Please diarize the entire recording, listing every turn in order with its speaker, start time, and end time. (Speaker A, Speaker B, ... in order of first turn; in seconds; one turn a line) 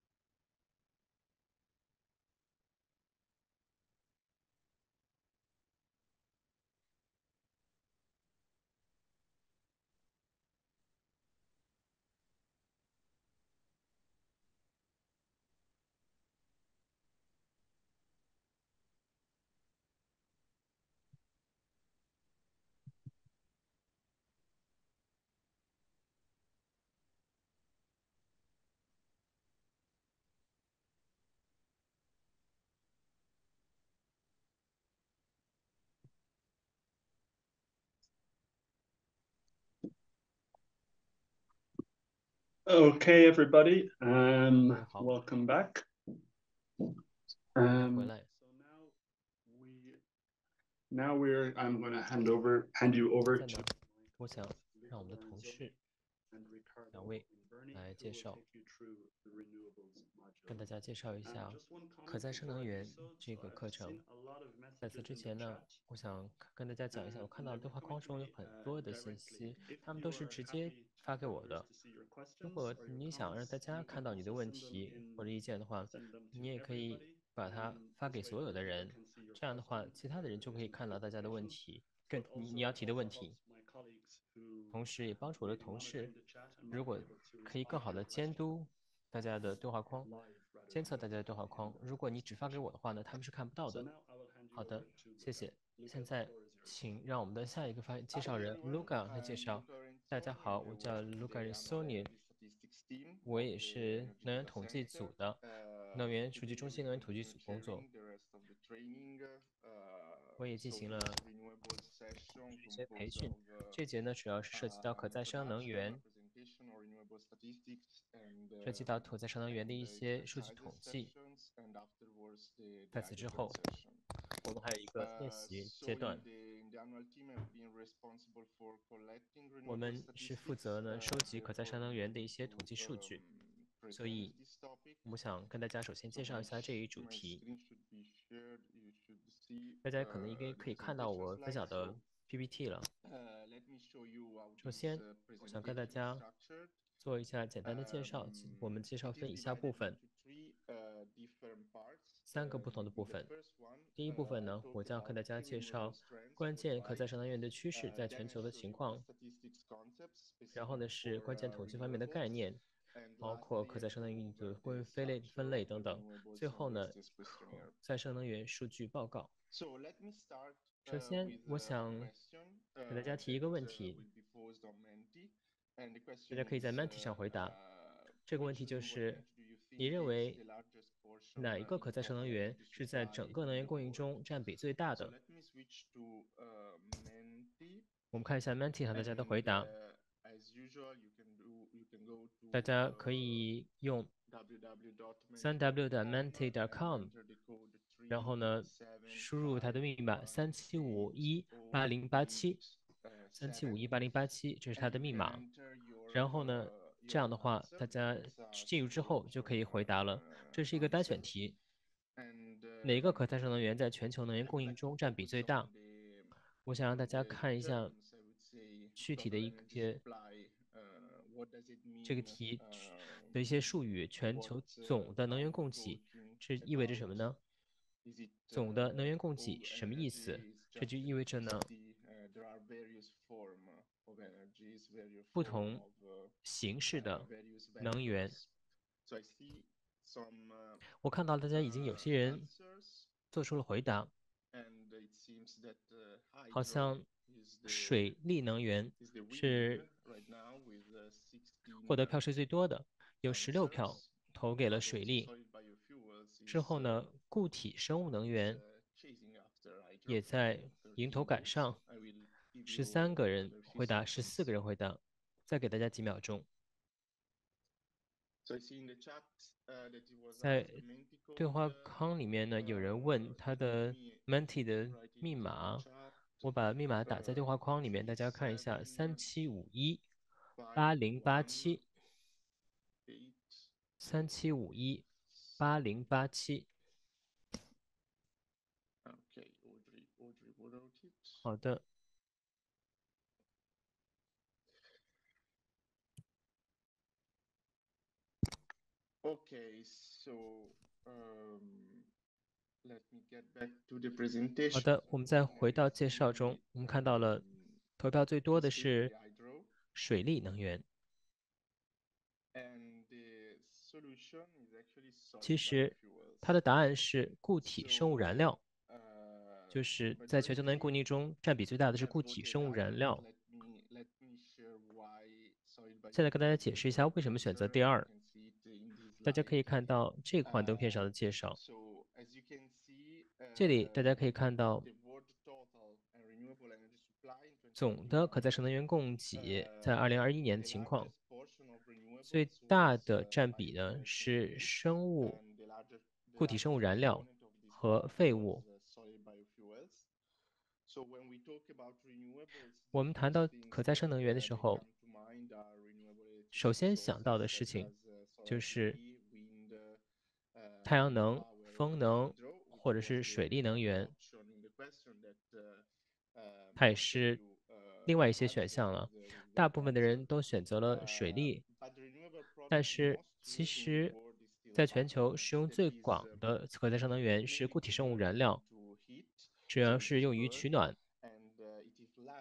Speaker A: 0.3-2.4
Speaker B: 42.7-45.8
Speaker C: 44.5-45.2
Speaker B: 47.6-48.1
Speaker C: 47.7-48.3
Speaker A: 48.3-49.0
Speaker B: 49.5-50.0
Speaker B: 50.9-54.2
Speaker C: 53.3-55.7
Speaker A: 54.1-55.2
Speaker B: 56.3-56.8
Speaker A: 56.5-60.5
Speaker C: 56.9-58.4
Speaker C: 60.5-64.0
Speaker A: 61.6-65.4
Speaker C: 64.8-71.7
Speaker A: 67.8-68.8
Speaker A: 69.9-70.4
Speaker A: 71.7-72.7
Speaker C: 72.4-83.4
Speaker A: 79.0-79.4
Speaker A: 82.3-84.7
Speaker C: 84.7-86.1
Speaker A: 86.2-86.7
Speaker C: 86.7-90.1
Speaker A: 87.2-88.2
Speaker B: 90.1-90.6
Speaker A: 90.5-90.8
Speaker C: 90.7-93.9
Speaker B: 93.9-95.0
Speaker C: 94.5-102.1
Speaker C: 103.2-105.4
Speaker C: 105.9-107.9
Speaker C: 110.4-111.2
Speaker C: 112.4-116.0
Speaker C: 118.6-121.2
Speaker C: 122.9-123.6
Speaker C: 124.4-126.3
Speaker C: 129.6-133.2
Speaker C: 133.9-134.4
Speaker C: 135.0-137.4
Speaker C: 139.8-142.9
Speaker C: 144.6-146.3
Speaker C: 147.0-150.0
Speaker C: 152.3-153.3
Speaker C: 154.0-159.1
Speaker C: 160.5-162.6
Speaker C: 163.2-169.3
Speaker C: 170.9-172.1
Speaker C: 172.9-174.1
Speaker C: 176.3-177.6
Speaker C: 178.3-179.3
Speaker C: 179.8-180.4
Speaker C: 181.4-185.2
Speaker C: 188.1-189.7
Speaker C: 192.5-194.1
Speaker C: 195.4-197.1
Speaker C: 198.1-202.6
Speaker C: 203.3-205.4
Speaker C: 206.1-211.6
Speaker C: 212.8-215.7
Speaker C: 216.7-218.0
Speaker C: 219.0-220.0
Speaker C: 222.0-222.7
Speaker C: 223.3-227.4
Speaker C: 228.5-231.7
Speaker C: 235.3-235.8
Speaker C: 236.4-238.4
Speaker C: 241.0-242.5
Speaker C: 243.3-244.1
Speaker C: 246.5-247.1
Speaker C: 247.7-249.9
Speaker C: 251.9-255.3
Speaker C: 256.5-258.6
Speaker C: 260.1-261.8
Speaker C: 262.6-266.5
Speaker C: 270.4-270.8
Speaker C: 271.4-275.9
Speaker C: 276.4-280.0
Speaker C: 280.8-281.8
Speaker C: 284.0-285.1
Speaker C: 285.6-286.7
Speaker C: 291.4-291.8
Speaker A: 299.6-300.3
Speaker C: 304.7-307.5
Speaker C: 308.0-309.1
Speaker C: 309.9-310.9
Speaker C: 315.4-318.6
Speaker C: 319.7-323.3
Speaker C: 326.1-328.1
Speaker C: 329.2-331.6
Speaker C: 333.6-334.9
Speaker C: 337.8-341.1
Speaker C: 342.3-345.4
Speaker C: 346.4-348.6
Speaker C: 352.9-354.9
Speaker C: 356.5-357.9
Speaker C: 358.5-359.0
Speaker C: 360.9-364.1
Speaker C: 366.8-367.4
Speaker C: 368.1-371.6
Speaker C: 372.7-374.2
Speaker C: 374.8-378.6
Speaker C: 379.7-381.0